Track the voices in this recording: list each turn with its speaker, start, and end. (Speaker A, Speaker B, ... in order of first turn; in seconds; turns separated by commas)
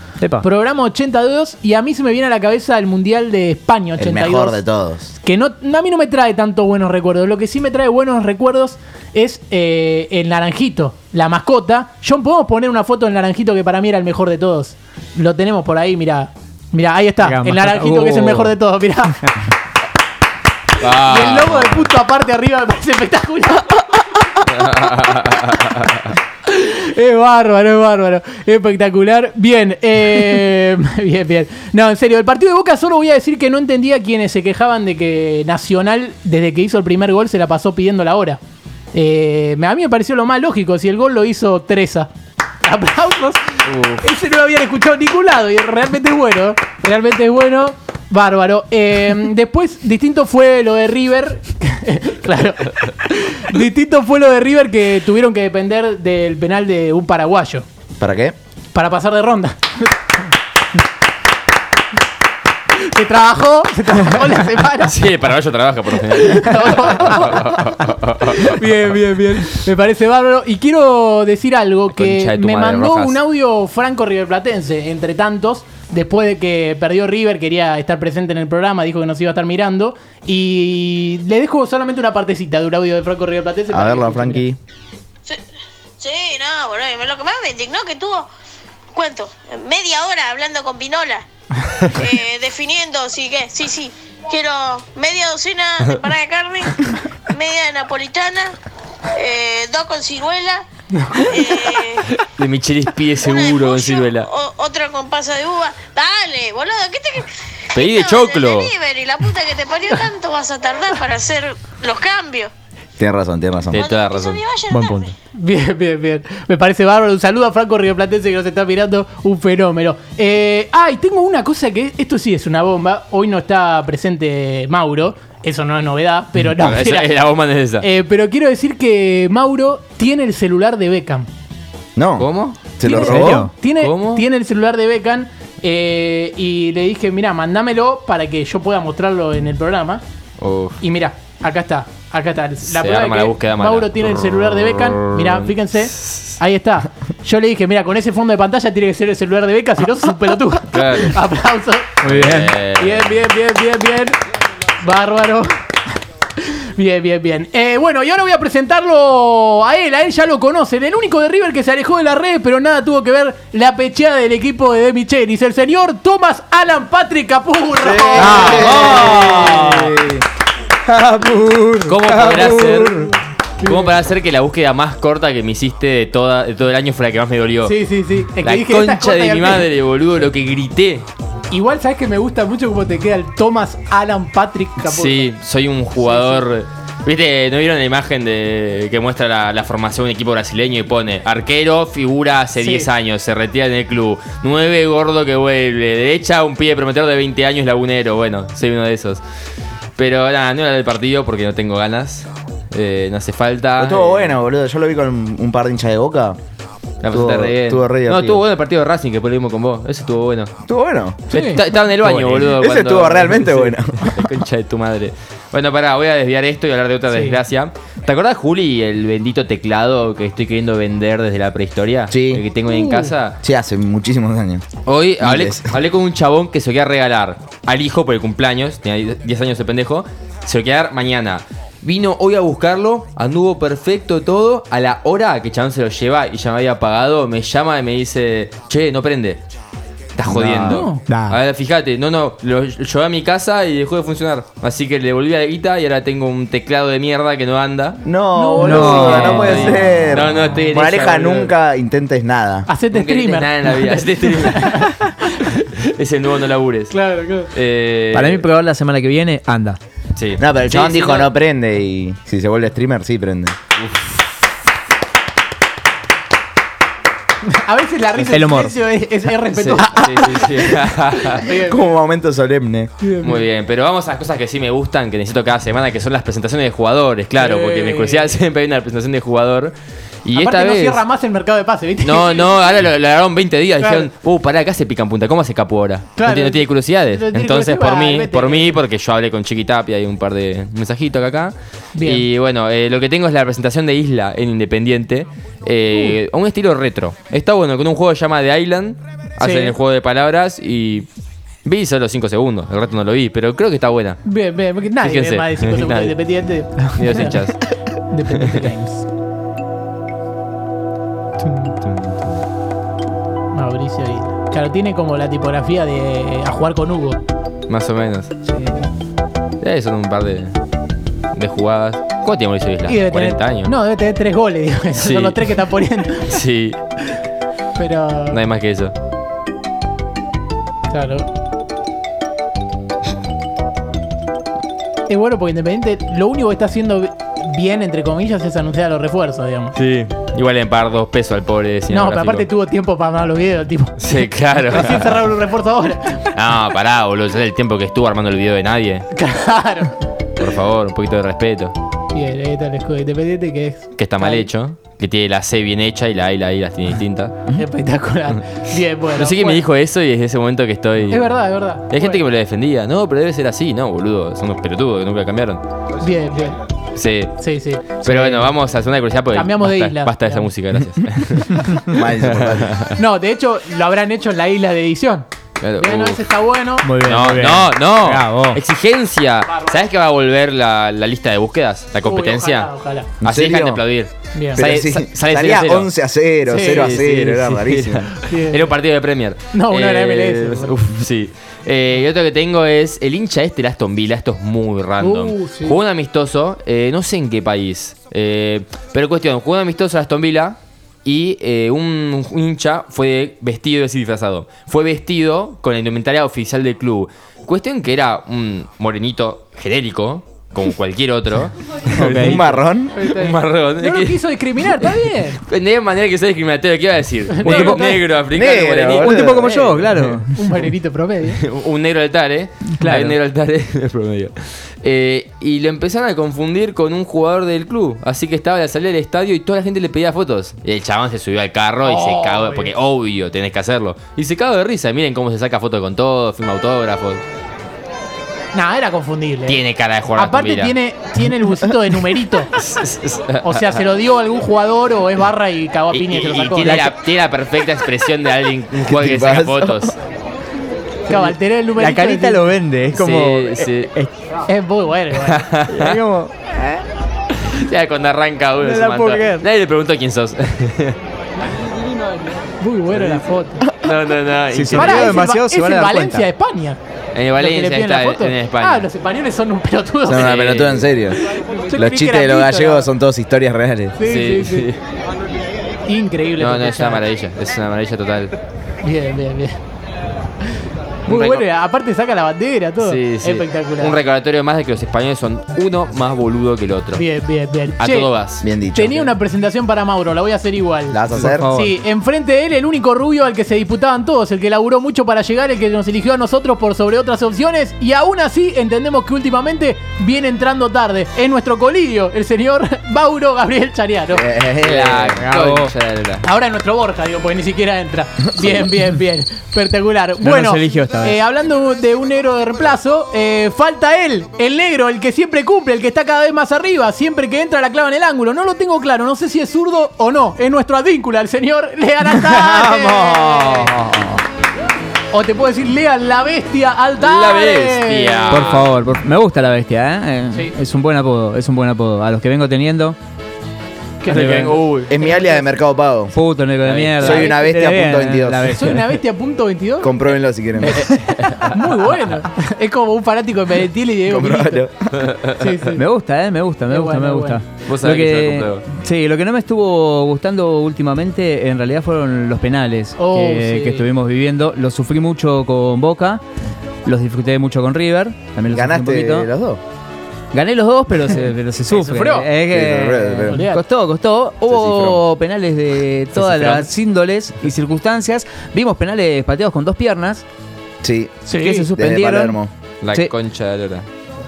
Speaker A: 0.2-0.5, Speaker B: 0.4-4.6, Speaker C: 4.0-5.1, Speaker B: 5.2-19.3, Speaker A: 17.2-18.5, Speaker D: 20.8-21.9, Speaker B: 20.8-24.0, Speaker D: 24.4-26.1, Speaker B: 26.5-38.4, Speaker B: 38.9-42.1, Speaker B: 42.6-57.6, Speaker D: 43.7-44.0, Speaker C: 58.0-58.4, Speaker B: 58.7-59.9, Speaker B: 62.7-65.0, Speaker D: 64.8-68.6, Speaker B: 66.1-67.6, Speaker B: 68.3-84.5, Speaker D: 72.0-73.2, Speaker C: 83.7-84.6, Speaker E: 86.0-88.3, Speaker E: 88.9-91.3, Speaker E: 91.9-98.5, Speaker E: 99.1-102.1, Speaker B: 100.9-101.3, Speaker D: 102.2-104.3, Speaker E: 103.2-112.5, Speaker D: 107.7-108.7, Speaker C: 113.0-113.8, Speaker D: 113.7-114.4, Speaker E: 113.8-115.1, Speaker A: 114.7-115.1, Speaker B: 115.3-127.1, Speaker D: 126.6-127.8, Speaker B: 127.8-131.3, Speaker C: 131.9-133.5, Speaker D: 132.2-132.6, Speaker A: 132.8-133.5, Speaker B: 132.8-140.0, Speaker D: 133.8-134.2, Speaker D: 140.4-140.8, Speaker B: 140.8-152.0, Speaker D: 142.6-146.2, Speaker D: 150.7-151.2, Speaker A: 152.0-152.6, Speaker D: 152.0-153.2, Speaker B: 152.8-154.2, Speaker B: 154.8-155.5, Speaker B: 156.4-168.8, Speaker C: 167.8-169.7, Speaker D: 168.2-170.0, Speaker A: 168.5-169.6, Speaker A: 170.9-173.1, Speaker D: 171.8-173.1, Speaker B: 173.6-173.9, Speaker D: 173.6-177.8, Speaker B: 177.7-179.7, Speaker D: 178.4-181.1, Speaker B: 181.5-185.3, Speaker D: 184.8-199.2, Speaker B: 186.0-186.4, Speaker B: 192.6-192.9, Speaker D: 200.0-204.3, Speaker C: 203.8-206.4, Speaker D: 207.0-210.6, Speaker C: 207.1-208.4, Speaker C: 210.7-211.3, Speaker D: 211.3-223.4, Speaker B: 211.3-211.6, Speaker C: 212.0-214.3, Speaker A: 212.0-212.4, Speaker B: 217.1-217.4, Speaker C: 222.1-222.4, Speaker B: 222.7-223.1, Speaker C: 223.4-224.7, Speaker D: 224.8-239.4, Speaker C: 225.2-225.7, Speaker D: 240.2-248.0, Speaker C: 240.3-240.9, Speaker B: 240.7-241.0, Speaker A: 241.1-241.4, Speaker C: 248.0-252.7, Speaker B: 248.3-249.7, Speaker A: 248.6-250.0, Speaker D: 249.0-251.5, Speaker B: 252.7-255.4, Speaker D: 252.9-257.0, Speaker B: 256.9-257.5, Speaker D: 257.5-258.4, Speaker A: 258.1-259.8, Speaker D: 260.1-261.3, Speaker C: 260.4-263.6, Speaker D: 263.8-264.1, Speaker B: 267.4-270.6, Speaker A: 268.3-268.8, Speaker D: 269.5-271.5, Speaker B: 271.3-271.9, Speaker C: 271.5-272.9, Speaker B: 273.0-273.4, Speaker D: 273.2-279.7, Speaker B: 277.4-278.3, Speaker D: 280.2-281.0, Speaker B: 280.3-282.7, Speaker D: 282.0-301.1, Speaker B: 283.8-284.1, Speaker B: 286.2-288.8, Speaker B: 291.9-292.2, Speaker B: 295.9-296.2, Speaker B: 299.4-299.7, Speaker D: 301.6-304.2, Speaker B: 304.2-307.4, Speaker D: 305.0-306.2, Speaker D: 306.8-307.6, Speaker B: 308.1-309.0, Speaker D: 308.3-308.7, Speaker B: 311.4-311.7, Speaker D: 311.8-312.4, Speaker B: 313.5-317.2, Speaker D: 317.7-318.3, Speaker B: 318.5-318.9, Speaker D: 319.6-320.5, Speaker D: 321.3-323.7, Speaker B: 322.9-326.4, Speaker D: 324.9-325.5, Speaker D: 326.3-326.8, Speaker B: 327.8-328.4, Speaker D: 328.3-328.9, Speaker B: 330.9-331.3, Speaker B: 335.1-339.8, Speaker D: 339.8-342.5, Speaker B: 341.9-346.3, Speaker D: 344.0-345.2, Speaker D: 346.2-349.1, Speaker B: 349.1-349.9, Speaker D: 350.4-351.7, Speaker B: 352.1-354.5, Speaker D: 354.0-357.3, Speaker B: 357.5-359.6, Speaker D: 359.1-361.4, Speaker B: 361.1-362.2, Speaker D: 361.9-365.6, Speaker B: 366.0-366.6, Speaker D: 366.9-367.4, Speaker B: 367.4-368.5, Speaker D: 368.0-372.9, Speaker B: 369.3-370.5, Speaker C: 371.9-372.8, Speaker B: 372.9-375.2, Speaker D: 375.6-376.2, Speaker B: 375.8-376.9, Speaker A: 376.8-378.6, Speaker D: 377.0-382.7, Speaker B: 379.5-379.8, Speaker B: 382.0-383.1, Speaker D: 383.2-385.9, Speaker C: 383.2-383.8, Speaker B: 384.3-384.6, Speaker C: 384.5-388.1, Speaker B: 386.4-386.9, Speaker D: 386.5-414.2, Speaker B: 388.2-388.7, Speaker B: 389.5-390.8, Speaker B: 395.0-395.8, Speaker C: 411.9-413.0, Speaker A: 412.0-412.4, Speaker B: 412.9-415.4, Speaker D: 414.8-419.5, Speaker B: 417.3-418.0, Speaker A: 417.4-417.8, Speaker C: 418.3-419.9, Speaker A: 418.9-420.4, Speaker B: 420.3-421.4, Speaker D: 421.3-437.2, Speaker A: 422.8-423.1, Speaker B: 431.8-432.7, Speaker B: 438.5-439.6, Speaker D: 439.5-440.7, Speaker B: 440.1-442.5, Speaker D: 442.5-443.8, Speaker B: 443.4-446.9, Speaker D: 445.9-449.9, Speaker C: 448.9-449.9, Speaker B: 451.1-452.5, Speaker A: 451.1-454.1, Speaker D: 452.9-453.9, Speaker B: 454.5-455.4, Speaker D: 455.2-456.0, Speaker A: 455.7-456.8, Speaker D: 457.4-461.0, Speaker A: 458.6-459.4, Speaker B: 462.6-463.6, Speaker D: 462.9-465.2, Speaker C: 464.5-465.0, Speaker A: 464.5-466.2, Speaker B: 464.7-466.8, Speaker D: 467.1-468.9, Speaker B: 467.4-470.3, Speaker C: 470.1-471.2, Speaker D: 470.1-471.0, Speaker B: 471.5-472.9, Speaker C: 471.7-473.9, Speaker B: 474.0-474.7, Speaker D: 474.0-474.8, Speaker B: 475.9-477.0, Speaker D: 476.4-478.3, Speaker B: 478.8-479.6, Speaker B: 481.1-484.0, Speaker D: 481.1-481.4, Speaker D: 482.8-487.0, Speaker B: 486.9-488.1, Speaker D: 487.8-488.5, Speaker C: 488.4-489.1, Speaker B: 488.7-504.3, Speaker C: 490.9-491.5, Speaker A: 491.1-491.8, Speaker C: 504.1-505.2, Speaker D: 504.6-506.2, Speaker A: 505.2-505.7, Speaker B: 506.2-523.7, Speaker A: 510.2-511.2, Speaker D: 522.3-524.0, Speaker B: 525.1-528.5, Speaker D: 527.0-528.7, Speaker A: 528.3-533.0, Speaker B: 534.0-535.4, Speaker A: 534.1-534.6, Speaker D: 534.1-534.9, Speaker C: 534.9-536.1, Speaker A: 536.1-539.0, Speaker D: 536.6-537.0, Speaker C: 536.9-538.6, Speaker B: 537.0-537.3, Speaker B: 538.5-540.0, Speaker C: 539.8-540.8, Speaker B: 540.6-544.6, Speaker D: 540.8-541.6, Speaker C: 544.0-545.0, Speaker D: 544.9-545.5, Speaker B: 545.3-545.8, Speaker A: 545.7-556.2, Speaker B: 546.7-547.4, Speaker D: 547.6-548.6, Speaker B: 553.0-553.9, Speaker A: 556.9-559.3, Speaker C: 558.5-559.6, Speaker A: 560.3-570.2, Speaker B: 561.7-562.3, Speaker C: 562.5-563.4, Speaker B: 563.3-563.6, Speaker C: 564.5-565.0, Speaker D: 564.5-564.9, Speaker D: 566.1-566.7, Speaker C: 570.8-572.5, Speaker B: 571.3-571.7, Speaker A: 571.3-572.4, Speaker D: 572.8-573.9